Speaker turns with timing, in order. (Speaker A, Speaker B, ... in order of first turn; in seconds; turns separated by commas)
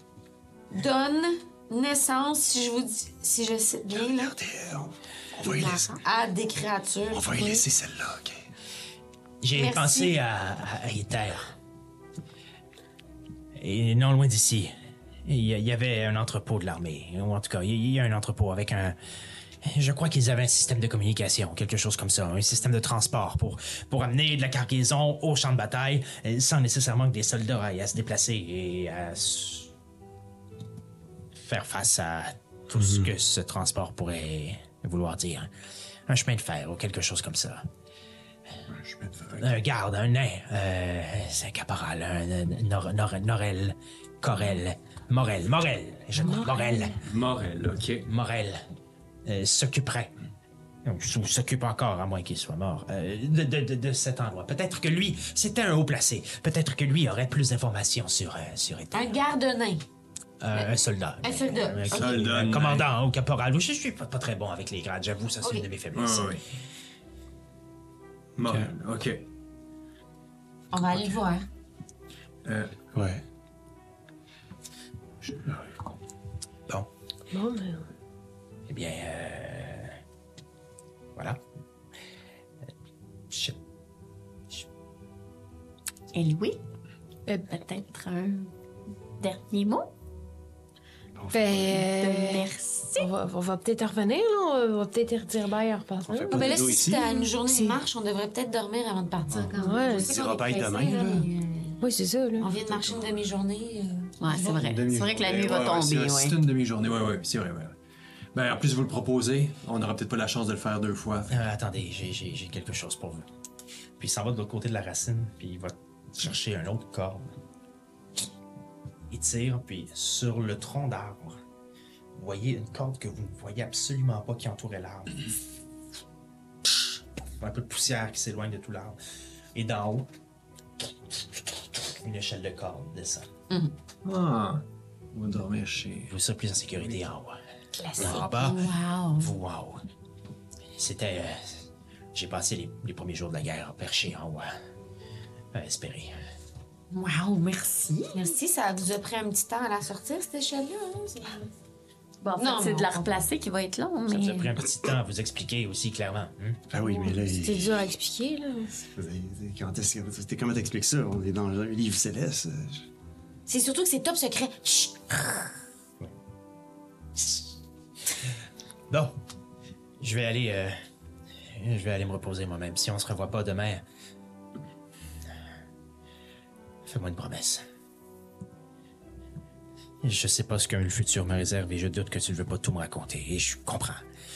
Speaker A: 0.7-4.3, Speaker B: 4.0-5.9, Speaker C: 5.4-5.9, Speaker A: 6.0-7.3, Speaker B: 7.1-8.4, Speaker D: 7.3-7.6, Speaker E: 9.4-11.5, Speaker A: 9.5-10.2, Speaker E: 13.6-14.7, Speaker E: 15.2-18.9, Speaker E: 19.6-29.7, Speaker E: 31.4-35.5, Speaker E: 36.1-37.6, Speaker F: 38.7-39.5, Speaker E: 39.4-47.0, Speaker D: 46.2-47.0, Speaker F: 47.0-48.1, Speaker E: 48.0-48.6, Speaker E: 49.2-50.1, Speaker E: 50.8-59.1, Speaker A: 58.9-59.8, Speaker E: 60.4-66.4, Speaker A: 61.2-62.1, Speaker F: 61.9-62.9, Speaker A: 65.4-65.7, Speaker F: 65.9-66.4, Speaker F: 68.4-69.2, Speaker A: 70.7-71.5, Speaker F: 72.4-72.8, Speaker B: 72.9-73.2, Speaker D: 77.3-77.9, Speaker E: 78.7-80.0, Speaker E: 81.2-81.4, Speaker E: 83.3-83.6, Speaker C: 86.1-86.6, Speaker C: 87.5-88.5, Speaker C: 89.2-89.9, Speaker B: 91.1-91.8, Speaker D: 91.3-97.8, Speaker C: 91.7-93.1, Speaker B: 96.0-97.0, Speaker A: 96.3-101.8, Speaker B: 99.3-101.3, Speaker D: 99.5-101.2, Speaker D: 101.8-102.5, Speaker A: 102.4-104.7, Speaker C: 104.2-106.4, Speaker F: 104.4-107.8, Speaker F: 108.3-111.4, Speaker E: 111.3-113.2, Speaker E: 114.0-117.3, Speaker E: 119.1-121.4, Speaker E: 122.1-125.2, Speaker E: 127.4-129.0, Speaker E: 129.5-130.1, Speaker E: 131.8-133.3, Speaker F: 134.0-136.1, Speaker E: 136.1-137.4, Speaker D: 137.7-138.3, Speaker E: 137.9-139.8, Speaker C: 138.0-139.3, Speaker E: 140.7-144.5, Speaker E: 145.5-146.2, Speaker C: 146.9-148.3, Speaker A: 148.1-151.5, Speaker C: 152.2-154.6, Speaker A: 152.3-153.2, Speaker E: 154.1-156.6, Speaker B: 156.7-157.8, Speaker D: 156.8-158.7, Speaker B: 158.8-162.8, Speaker A: 163.5-165.5, Speaker E: 167.2-167.5, Speaker E: 168.9-169.1, Speaker E: 170.0-170.8, Speaker E: 171.5-173.8, Speaker E: 176.8-177.6, Speaker E: 180.0-184.0